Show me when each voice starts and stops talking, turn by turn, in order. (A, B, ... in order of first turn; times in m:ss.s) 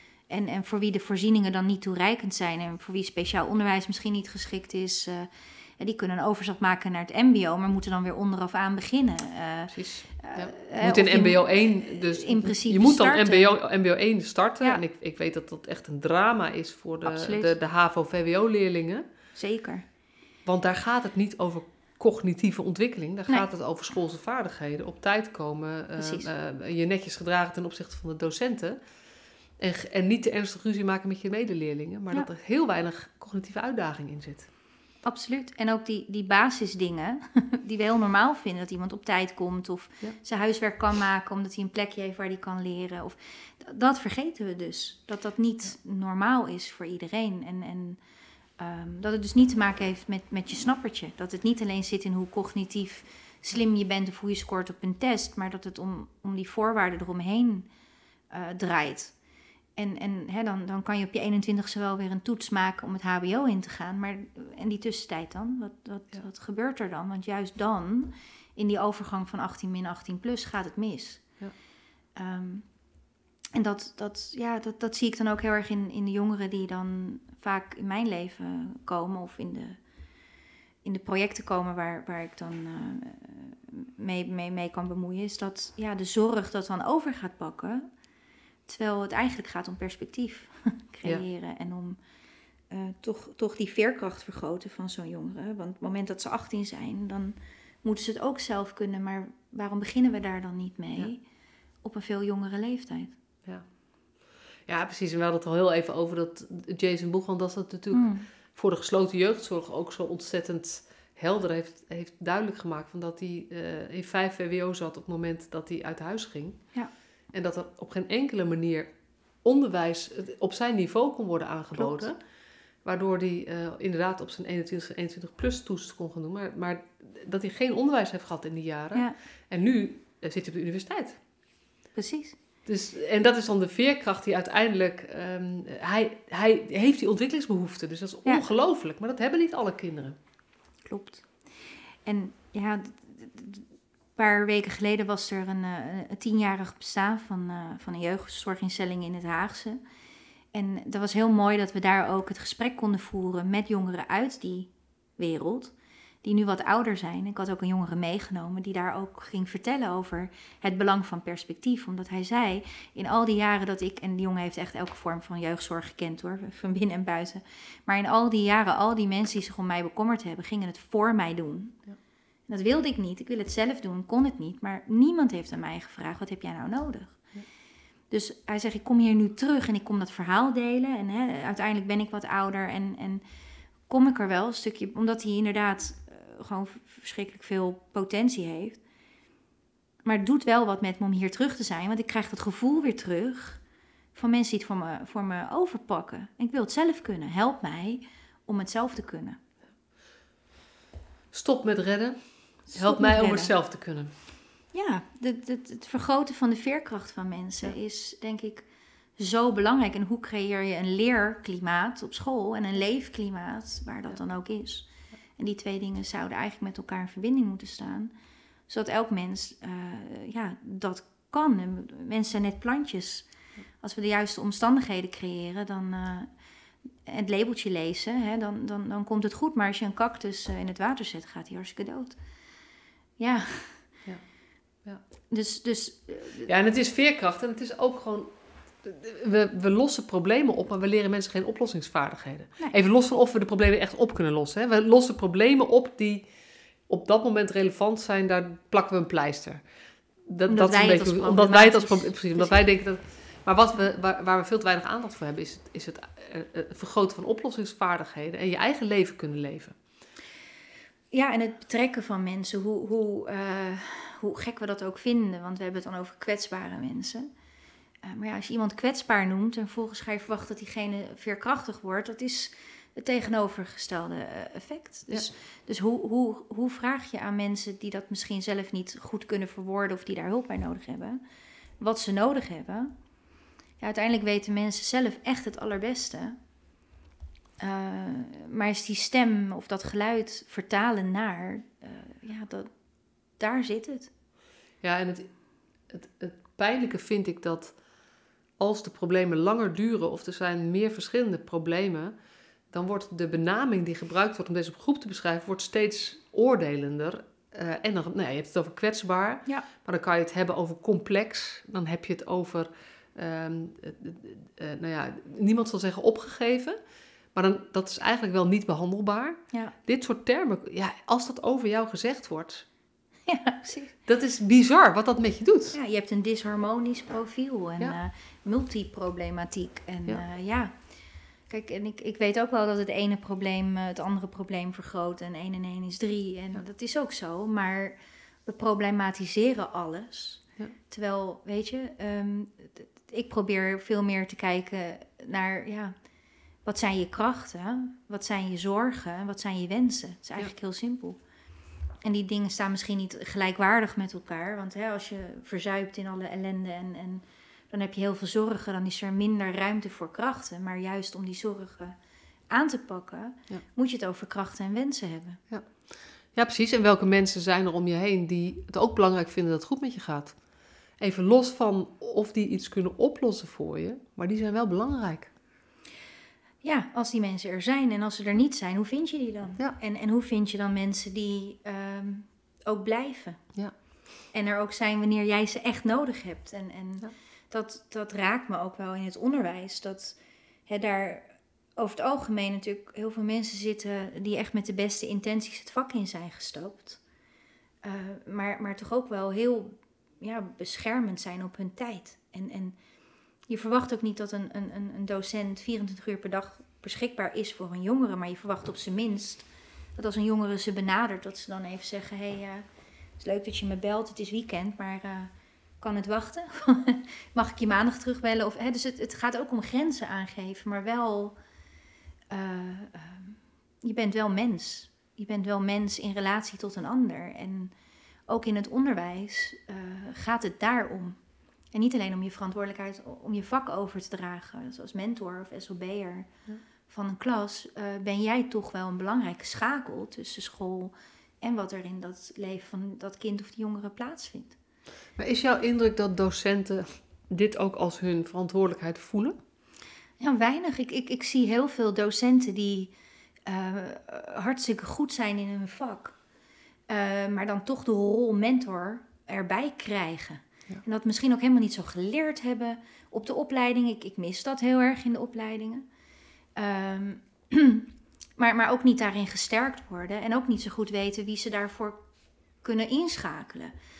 0:00.3-0:13.6 A
0:09.7-0:19.0 B
0:17.0-0:17.5 A
0:19.3-0:19.8 A
0:20.4-0:28.8 B
0:26.0-0:26.3 A
0:29.6-0:34.5 B
0:35.0-0:48.0 A
0:48.6-0:57.7 A
0:58.3-0:59.1 A
0:59.8-1:11.2 A
1:12.2-1:12.6 A
1:13.5-1:19.8 A
1:20.8-1:27.9 A
1:28.7-1:32.0 A
1:32.7-1:41.2 A
1:41.8-1:43.1 A
1:44.7-1:56.6 B
1:47.9-1:48.3 A
1:57.3-1:58.9 B
1:59.4-2:02.2 B
2:01.8-2:02.1 A
2:02.8-2:11.2 B
2:12.0-2:12.4 A
2:12.6-2:20.2 B
2:20.9-2:21.3 A
2:22.0-2:29.8 A
2:30.5-2:51.8 A
2:52.5-2:57.2 A
2:58.1-3:03.2 A
3:03.9-3:08.8 A
3:10.0-3:13.6 A
3:14.1-3:19.4 A
3:21.3-3:22.2 B
3:22.7-3:23.5 A
3:22.7-3:24.1 B
3:24.7-3:28.6 A
3:29.2-3:38.1 A
3:38.7-3:43.3 A
3:43.8-3:46.3 A
3:47.0-3:52.2 A
3:53.2-3:53.9 A
3:55.3-3:56.5 A
3:56.4-3:58.3 B
3:58.8-4:06.2 B
4:06.9-4:09.6 B
4:10.3-4:19.8 B
4:10.5-4:12.6 A
4:21.1-4:27.3 A
4:28.0-4:41.2 A
4:41.8-4:42.9 A
4:43.8-4:46.4 A
4:47.6-4:52.7 A
4:53.4-4:54.1 A
4:54.8-4:55.3 B
4:55.9-4:57.7 B
4:58.6-5:02.1 B
5:02.7-5:16.8 B
5:17.3-5:22.6 B
5:23.3-5:23.9 A
5:24.0-5:25.8 B
5:25.7-5:30.7 A
5:31.5-5:45.9 A
5:46.6-5:51.2 A
5:52.0-6:02.0 A
6:02.5-6:05.4 A
6:06.3-6:10.4 B
6:11.0-6:15.3 B
6:16.6-6:23.4 A
6:24.3-6:37.0 A
6:37.8-6:42.8 A
6:43.5-6:49.4 A
6:50.0-6:52.6 A
6:53.2-7:01.4 A
7:02.3-7:07.7 A
7:08.3-7:11.2 A
7:11.7-7:16.3 A
7:16.9-7:24.5 A
7:25.2-7:29.4 B
7:30.2-7:32.9 A
7:33.5-7:36.2 A
7:36.9-7:45.8 A
7:46.6-7:52.0 A
7:52.6-7:53.7 A